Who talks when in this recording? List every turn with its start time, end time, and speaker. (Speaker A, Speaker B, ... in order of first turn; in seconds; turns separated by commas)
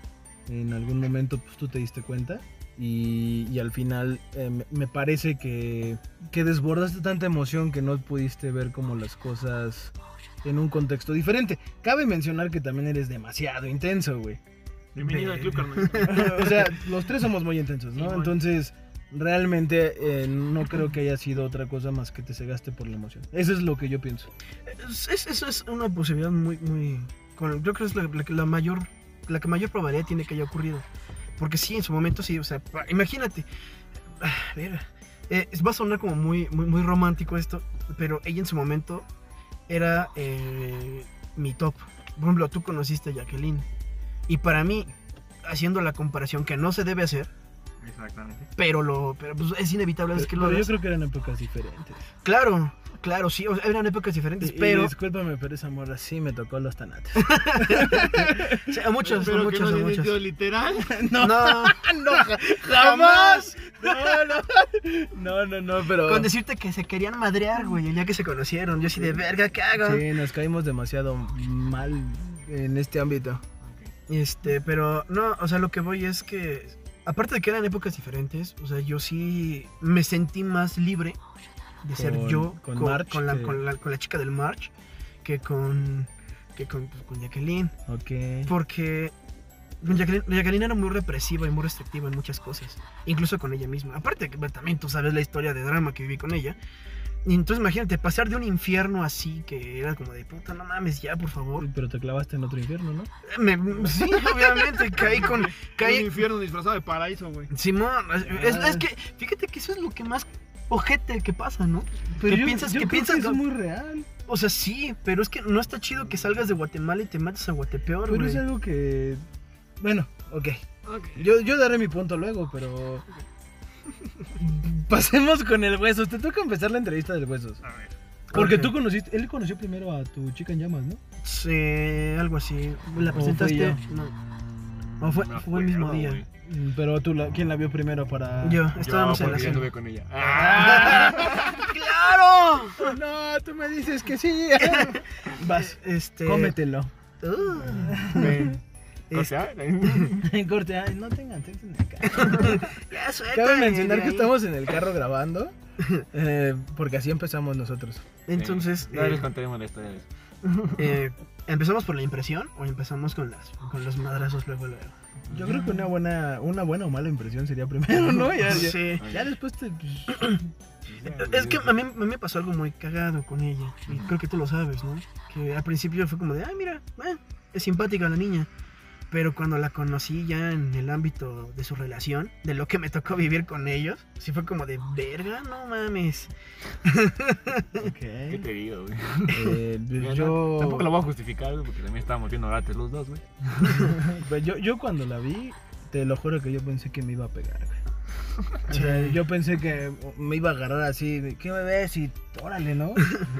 Speaker A: 0.5-14.4, Speaker B: 14.9-16.7, Speaker C: 15.1-16.5, Speaker A: 16.0-24.3, Speaker B: 17.9-18.4, Speaker C: 24.6-30.9, Speaker C: 31.4-33.5, Speaker C: 34.2-39.1, Speaker C: 39.7-43.7, Speaker C: 44.3-44.9, Speaker C: 45.4-47.3, Speaker B: 47.8-48.5, Speaker C: 48.5-50.7, Speaker A: 50.1-52.1, Speaker C: 52.2-54.9, Speaker A: 54.4-58.8, Speaker C: 57.1-60.2, Speaker B: 59.0-61.1, Speaker A: 60.9-66.3, Speaker C: 61.2-64.3, Speaker C: 66.0-70.0, Speaker A: 69.8-73.4, Speaker B: 73.6-73.9, Speaker C: 74.1-81.2, Speaker C: 81.8-84.7, Speaker A: 81.9-83.6, Speaker C: 85.2-87.7, Speaker A: 87.9-88.5, Speaker C: 88.5-89.1, Speaker C: 89.8-96.6, Speaker C: 97.2-101.7, Speaker A: 101.6-103.1, Speaker C: 103.2-106.2, Speaker B: 104.5-107.5, Speaker C: 107.5-113.4, Speaker A: 108.3-108.8, Speaker A: 112.2-114.1, Speaker C: 114.3-118.4, Speaker A: 118.0-119.2, Speaker A: 119.8-123.0, Speaker B: 120.8-121.3, Speaker A: 124.3-127.6, Speaker B: 127.6-127.9, Speaker C: 128.3-128.8, Speaker A: 128.3-131.0, Speaker C: 131.2-134.1, Speaker A: 133.1-133.8, Speaker B: 133.6-136.3, Speaker C: 135.0-136.2, Speaker A: 136.4-139.6, Speaker C: 138.4-139.7, Speaker B: 138.8-141.7, Speaker C: 140.2-142.9, Speaker A: 140.4-141.2, Speaker A: 142.8-146.9, Speaker C: 144.6-146.6, Speaker C: 147.2-148.3, Speaker B: 147.7-150.2, Speaker A: 147.8-148.5, Speaker C: 149.1-150.1, Speaker A: 150.2-152.6, Speaker C: 152.0-154.3, Speaker A: 153.3-155.5, Speaker C: 155.8-156.0, Speaker A: 156.1-158.0, Speaker C: 158.3-159.3, Speaker B: 158.3-160.8, Speaker C: 160.7-164.9, Speaker B: 165.3-165.8, Speaker A: 165.3-170.4, Speaker C: 168.3-169.0, Speaker B: 168.4-169.3, Speaker B: 170.9-171.6, Speaker C: 171.0-178.5, Speaker C: 179.1-186.3, Speaker C: 186.8-187.9, Speaker A: 187.8-188.4, Speaker B: 188.3-193.9, Speaker A: 189.3-190.9, Speaker A: 193.8-197.7, Speaker A: 198.7-203.2, Speaker C: 198.7-199.2